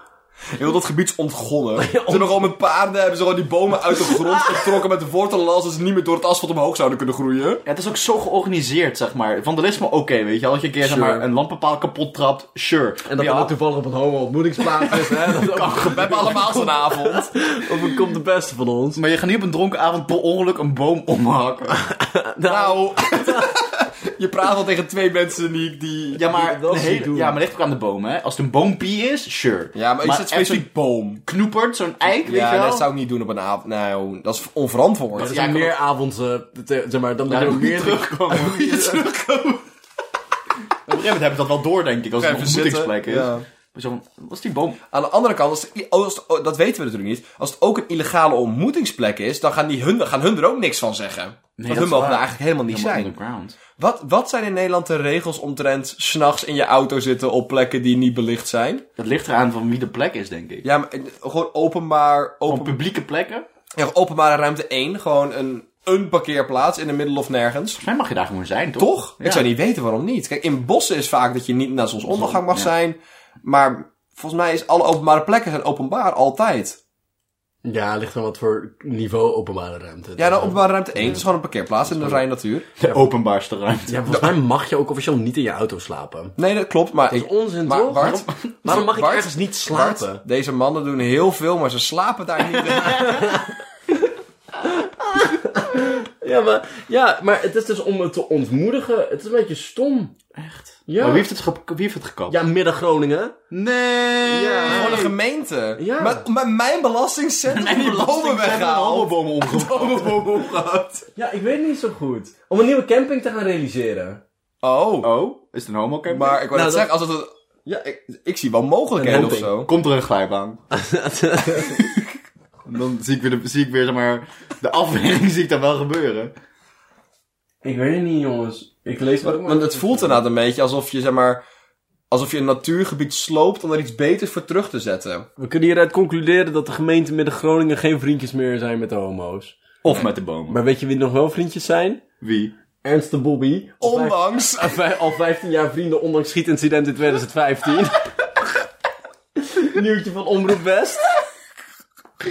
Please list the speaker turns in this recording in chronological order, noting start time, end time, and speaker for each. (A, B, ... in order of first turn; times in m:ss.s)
0:00.5-0:07.6 A
0:01.8-0:02.5 B
0:04.0-0:04.7 B
0:07.6-0:13.5 C
0:10.8-0:11.2 B
0:13.1-0:19.0 B
0:14.8-0:16.7 C
0:15.6-0:17.3 A
0:18.9-0:21.8 C
0:21.7-0:23.5 B
0:22.4-0:26.3 A
0:26.1-0:30.7 C
0:26.3-0:27.4 B
0:29.7-0:31.2 A
0:31.2-0:32.9 C
0:32.2-0:35.4 A
0:35.2-0:38.4 B
0:35.2-0:35.7 C
0:37.3-0:39.6 C
0:38.3-0:39.4 A
0:40.8-0:44.8 C
0:42.2-0:43.4 A
0:44.9-0:53.1 A
0:51.6-0:53.6 C
0:53.8-0:58.8 A
0:59.0-1:00.6 C
1:00.6-1:02.8 A
1:02.4-1:03.4 C
1:03.8-1:07.8 A
1:07.8-1:09.5 C
1:08.8-1:16.8 A
1:12.0-1:12.7 C
1:17.6-1:21.2 B
1:20.2-1:22.7 A
1:21.9-1:22.2 B
1:22.8-1:24.0 C
1:23.9-1:26.3 B
1:26.4-1:33.4 A
1:27.1-1:30.2 B
1:28.0-1:28.5 C
1:32.8-1:33.1 C
1:32.9-1:33.5 B
1:34.6-1:40.1 B
1:40.3-1:42.4 C
1:40.9-1:41.3 B
1:42.3-1:43.3 B
1:43.5-1:45.1 C
1:44.3-1:45.0 B
1:44.4-1:51.0 A
1:45.8-1:46.2 B
1:47.5-1:50.5 C
1:51.2-1:54.2 B
1:54.6-1:55.1 A
1:55.0-1:56.8 C
1:56.1-1:59.7 A
1:56.5-1:56.8 B
1:59.0-1:59.5 B
1:59.6-2:00.6 C
2:00.7-2:01.8 B
2:02.6-2:06.3 C
2:07.6-2:10.2 B
2:09.2-2:11.4 A
2:12.1-2:15.3 A
2:15.4-2:19.6 B
2:19.8-2:20.6 C
2:20.5-2:22.0 B
2:22.2-2:22.5 C
2:22.8-2:28.1 B
2:23.8-2:24.8 A
2:29.4-2:31.1 B